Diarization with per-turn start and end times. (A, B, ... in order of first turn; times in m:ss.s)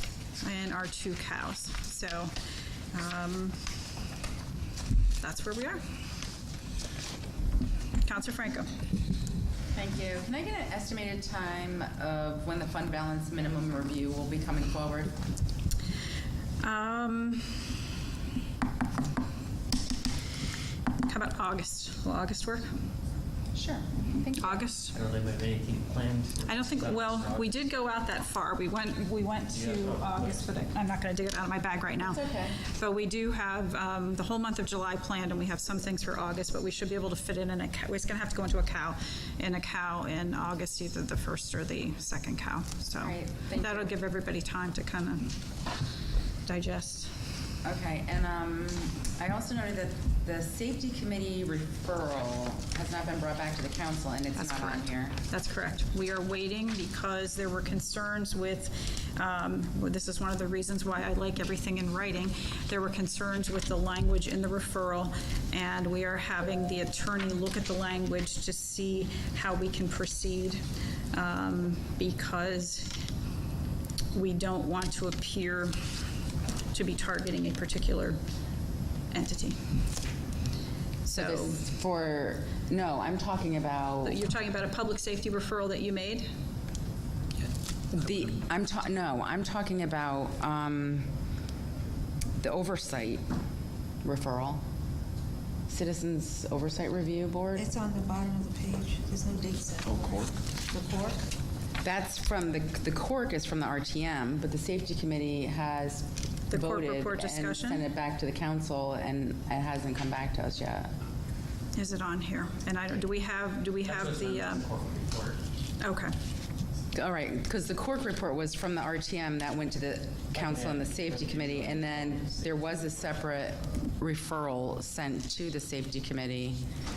0:00.4-0:02.3 A
0:02.9-0:03.6 A
0:05.2-0:05.8 A
0:08.0-0:08.7 A
0:09.7-0:15.2 B
0:16.6-0:17.8 A
0:21.1-0:22.7 A
0:23.5-0:24.7 B
0:24.4-0:24.9 A
0:24.9-0:27.6 C
0:26.4-0:45.4 A
0:29.5-0:30.5 C
0:32.0-0:32.6 B
0:43.0-0:43.9 B
0:46.4-0:47.1 A
0:47.6-0:55.2 B
0:54.4-1:13.0 A
1:14.1-1:15.7 A
1:16.7-1:18.2 A
1:19.1-1:19.8 A
1:21.0-1:21.6 A
1:21.1-1:24.2 B
1:24.0-1:26.3 A
1:27.9-1:31.1 B
1:32.4-1:33.2 B
1:34.0-1:34.6 B
1:35.7-1:37.7 B
1:37.6-1:41.2 D
1:41.8-1:50.9 B
1:46.5-1:47.8 A
1:51.7-1:54.6 A
1:53.8-1:55.4 C
1:55.8-1:56.1 A
1:56.9-2:06.6 B
2:00.3-2:02.5 C